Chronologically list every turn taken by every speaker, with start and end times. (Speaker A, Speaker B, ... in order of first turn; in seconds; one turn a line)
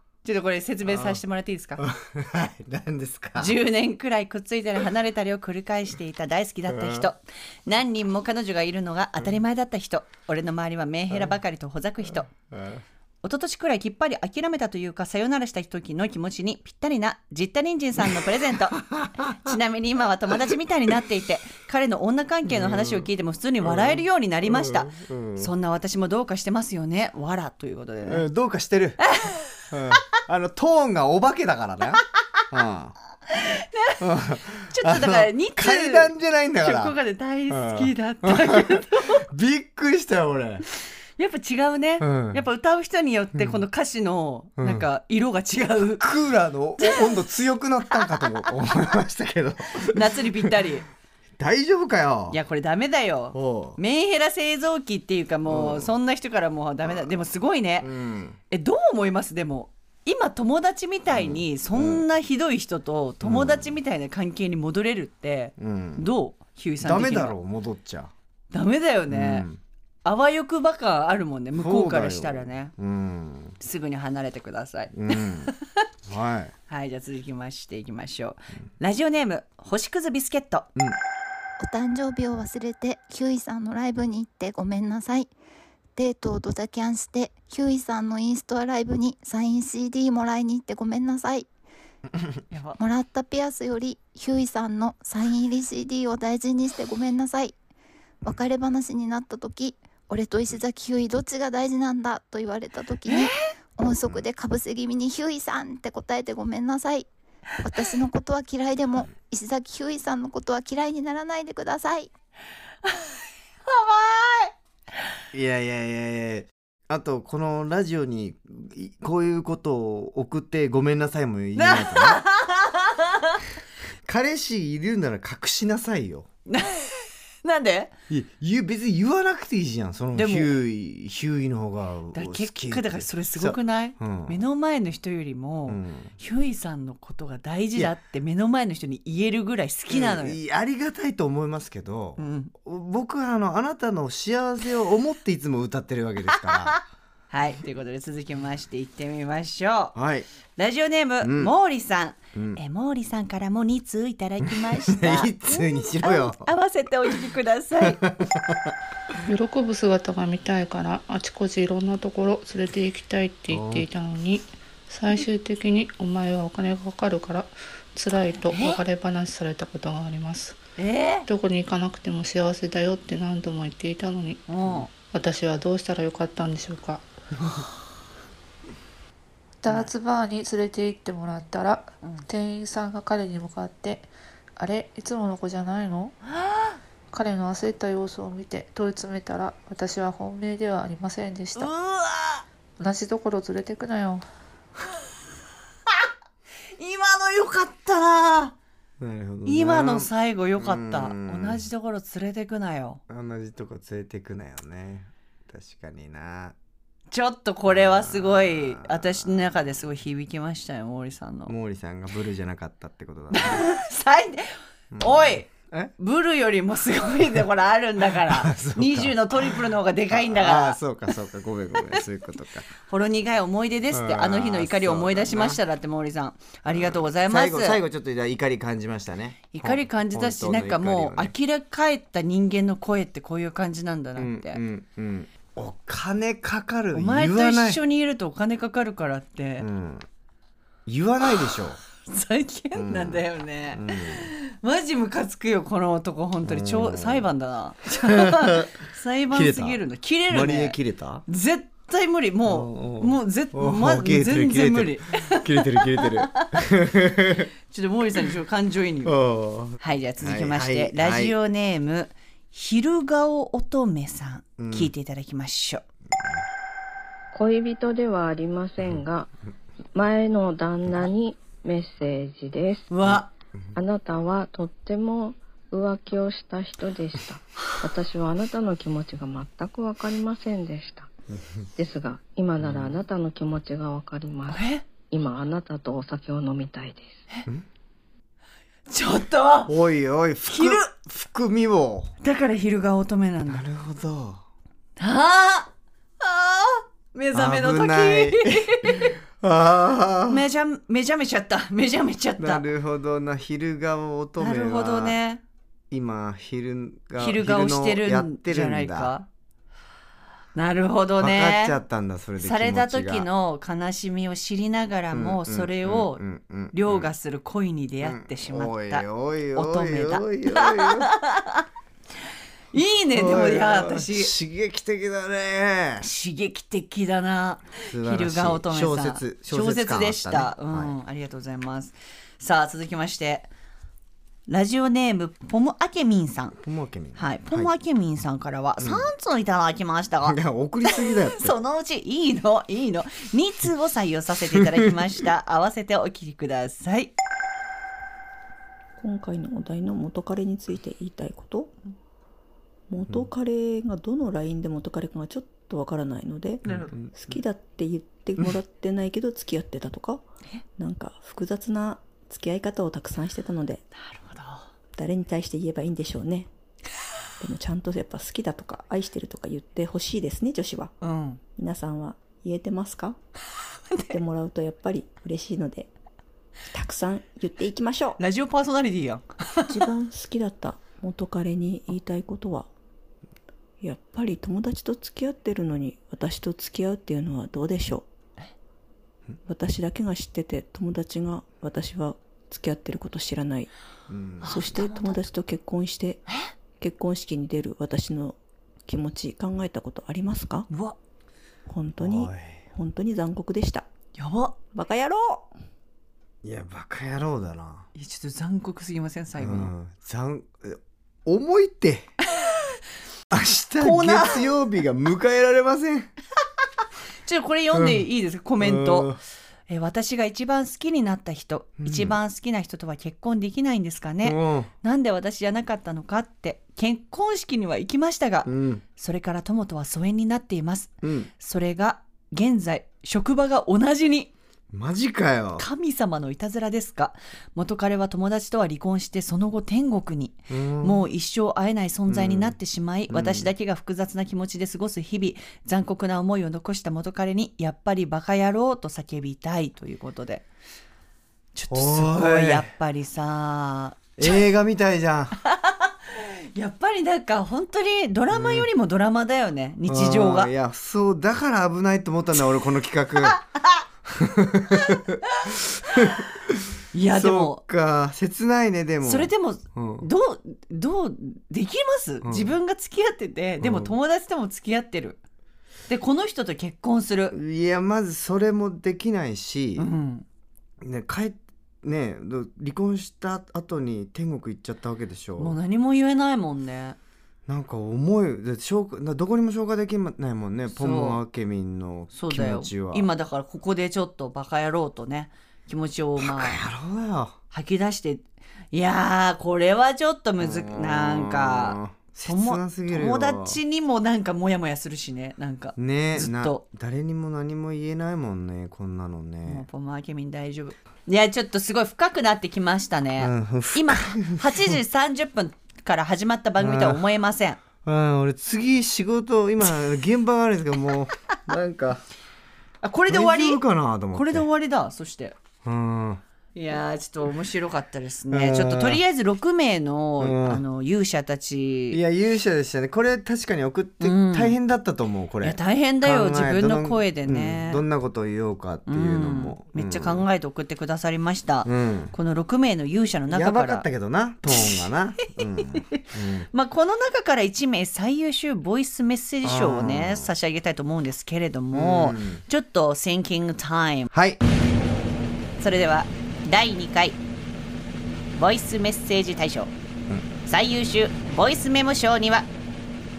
Speaker A: 0.2-1.8
Speaker B: 0.8-1.2
Speaker B: 1.8-3.6
Speaker A: 3.4-12.3
Speaker B: 6.7-7.1
Speaker B: 12.4-12.8
Speaker A: 13.2-28.2
Speaker B: 18.8-19.5
Speaker B: 22.5-23.1
Speaker B: 23.6-25.5
Speaker B: 28.1-29.0
Speaker B: 29.7-32.9
Speaker A: 33.3-34.0
Speaker B: 34.0-37.0
Speaker A: 34.7-39.2
Speaker B: 37.5-40.6
Speaker A: 41.2-46.0
Speaker B: 42.0-42.4
Speaker B: 44.6-44.9
Speaker B: 46.0-50.6
Speaker A: 49.9-50.9
Speaker B: 51.4-52.4
Speaker A: 52.3-57.9
Speaker B: 53.3-53.8
Speaker B: 55.5-55.9
Speaker B: 56.8-57.1
Speaker B: 57.8-58.4
Speaker A: 58.5-67.3
Speaker B: 61.1-62.0
Speaker B: 63.2-63.8
Speaker B: 65.6-66.1
Speaker B: 66.8-68.1
Speaker A: 68.5-69.5
Speaker B: 69.1-69.6
Speaker A: 70.0-72.7
Speaker B: 71.5-73.6
Speaker A: 73.6-75.5
Speaker B: 74.9-75.5
Speaker B: 76.0-76.5
Speaker A: 76.7-80.7
Speaker C: 81.6-85.3
Speaker C: 86.0-91.5
Speaker A: 92.5-92.8
Speaker C: 92.8-97.5
Speaker C: 98.2-107.1
Speaker C: 107.6-112.1
Speaker A: 113.7-114.5
Speaker B: 115.3-122.2
Speaker A: 121.5-123.4
Speaker B: 124.0-126.3
Speaker A: 126.5-127.9
Speaker B: 128.1-134.4
Speaker A: 130.1-130.6
Speaker A: 132.1-140.4
Speaker B: 135.7-136.1
Speaker B: 139.9-146.8
Speaker A: 142.2-142.5
Speaker A: 146.5-146.8
Speaker A: 147.3-149.9
Speaker B: 149.9-150.3
Speaker A: 150.6-158.0
Speaker B: 151.2-151.5
Speaker B: 152.3-152.6
Speaker B: 154.5-156.5
Speaker B: 157.8-158.7
Speaker D: 159.3-170.6
Speaker B: 163.5-163.8
Speaker A: 168.5-168.8
Speaker A: 170.8-171.2
Speaker D: 171.3-174.4
Speaker A: 174.5-174.9
Speaker D: 175.0-177.1
Speaker D: 179.6-186.2
Speaker A: 186.3-186.8
Speaker D: 187.1-191.7
Speaker A: 191.5-192.4
Speaker D: 192.8-194.2
Speaker A: 196.8-198.5
Speaker B: 199.0-201.7
Speaker A: 199.4-203.0
Speaker B: 203.1-206.6
Speaker A: 207.1-211.5
Speaker B: 207.7-209.6
Speaker B: 211.5-213.7
Speaker A: 213.3-220.8
Speaker B: 214.9-215.9
Speaker B: 218.1-222.7
Speaker A: 222.9-227.8
Speaker B: 223.9-225.6
Speaker B: 226.7-231.3
Speaker A: 229.5-234.6
Speaker B: 234.2-237.8
Speaker A: 236.9-239.7
Speaker B: 239.6-240.1
Speaker B: 240.8-241.8
Speaker A: 242.1-256.6
Speaker B: 242.7-244.3
Speaker B: 246.4-247.3
Speaker B: 248.1-248.8
Speaker B: 249.3-251.2
Speaker B: 252.4-257.5
Speaker A: 257.7-259.1
Speaker B: 259.0-261.4
Speaker A: 259.8-265.8
Speaker B: 264.6-264.9
Speaker E: 267.3-269.3
Speaker E: 269.9-272.9
Speaker A: 272.9-273.3
Speaker E: 273.7-281.1
Speaker B: 281.4-281.6
Speaker E: 281.8-287.2
Speaker B: 282.6-282.9
Speaker A: 284.5-284.8
Speaker A: 288.9-289.7
Speaker B: 289.7-292.1
Speaker A: 290.5-290.9
Speaker A: 292.2-293.6
Speaker B: 293.4-294.4
Speaker A: 295.0-299.1
Speaker B: 297.3-300.4
Speaker A: 300.3-302.6
Speaker B: 302.4-305.2
Speaker A: 304.4-305.4
Speaker B: 305.9-309.1
Speaker A: 307.2-309.3
Speaker A: 310.5-311.8
Speaker B: 311.2-313.3
Speaker A: 312.4-316.2
Speaker B: 315.1-317.1
Speaker A: 316.7-321.6
Speaker B: 318.0-321.1
Speaker A: 322.7-324.3
Speaker B: 323.1-326.1
Speaker A: 326.0-333.5
Speaker B: 327.8-331.0
Speaker A: 334.5-336.6
Speaker B: 336.6-337.7
Speaker A: 337.1-340.4
Speaker B: 338.8-339.1
Speaker B: 340.2-341.6
Speaker A: 340.9-347.1
Speaker B: 344.5-344.9
Speaker F: 349.0-351.7
Speaker F: 352.9-360.2
Speaker A: 356.7-356.9
Speaker B: 356.7-357.4
Speaker F: 360.8-363.8
Speaker A: 364.0-364.6
Speaker F: 364.9-366.5
Speaker F: 367.4-370.9
Speaker A: 371.0-371.4
Speaker F: 371.6-373.2
Speaker A: 373.9-374.2
Speaker F: 374.1-375.9
Speaker F: 376.7-378.2
Speaker A: 378.2-379.7
Speaker F: 379.6-382.7
Speaker F: 383.8-388.1
Speaker F: 389.4-393.7
Speaker B: 394.1-394.6
Speaker F: 394.4-396.2
Speaker A: 394.4-395.1
Speaker F: 396.8-400.7
Speaker A: 400.7-400.9
Speaker F: 401.6-403.9
Speaker B: 402.0-402.6
Speaker A: 404.1-404.6
Speaker F: 404.7-405.5
Speaker B: 406.4-407.9
Speaker A: 407.9-409.7
Speaker B: 409.4-412.1
Speaker B: 413.3-416.1
Speaker A: 413.8-414.5
Speaker A: 417.2-419.1
Speaker B: 417.7-418.0
Speaker B: 418.6-419.2
Speaker A: 419.7-434.3
Speaker B: 421.8-422.2
Speaker B: 424.2-424.7
Speaker B: 428.4-428.8
Speaker B: 431.0-431.3
Speaker B: 434.7-435.6
Speaker A: 435.6-450.4
Speaker B: 440.5-441.0
Speaker B: 442.1-442.6
Speaker B: 443.1-443.5
Speaker A: 451.5-454.4
Speaker B: 451.7-452.7
Speaker B: 454.2-455.4
Speaker A: 455.5-460.5
Speaker B: 458.3-458.7
Speaker B: 459.9-463.4
Speaker A: 463.2-463.8
Speaker B: 464.1-470.1
Speaker A: 464.9-466.2
Speaker A: 466.9-467.6
Speaker A: 469.0-475.2
Speaker B: 472.2-472.5
Speaker B: 473.6-473.9
Speaker A: 475.9-477.4
Speaker B: 477.3-479.9
Speaker A: 479.8-480.2
Speaker B: 480.8-485.6
Speaker A: 485.4-487.0
Speaker B: 487.5-493.1
Speaker A: 490.7-491.2
Speaker A: 492.1-496.6
Speaker B: 496.2-497.4
Speaker A: 497.5-506.6
Speaker B: 500.4-503.6
Speaker B: 505.8-509.6
Speaker A: 509.4-517.6
Speaker B: 513.2-514.8
Speaker B: 516.6-517.0
Speaker B: 517.8-522.0
Speaker A: 522.8-523.6
Speaker B: 523.1-524.5
Speaker A: 524.1-525.4
Speaker B: 525.6-526.2
Speaker A: 526.5-532.0
Speaker B: 528.3-529.0
Speaker B: 530.2-530.6
Speaker B: 531.9-540.2
Speaker A: 534.0-534.6
Speaker A: 535.4-537.8
Speaker A: 538.9-543.9
Speaker B: 541.6-542.1
Speaker B: 543.3-546.5
Speaker A: 546.5-554.1
Speaker B: 549.4-550.3
Speaker B: 551.7-552.4
Speaker B: 554.1-554.4
Speaker A: 555.6-557.2
Speaker A: 558.3-559.7
Speaker A: 560.4-562.5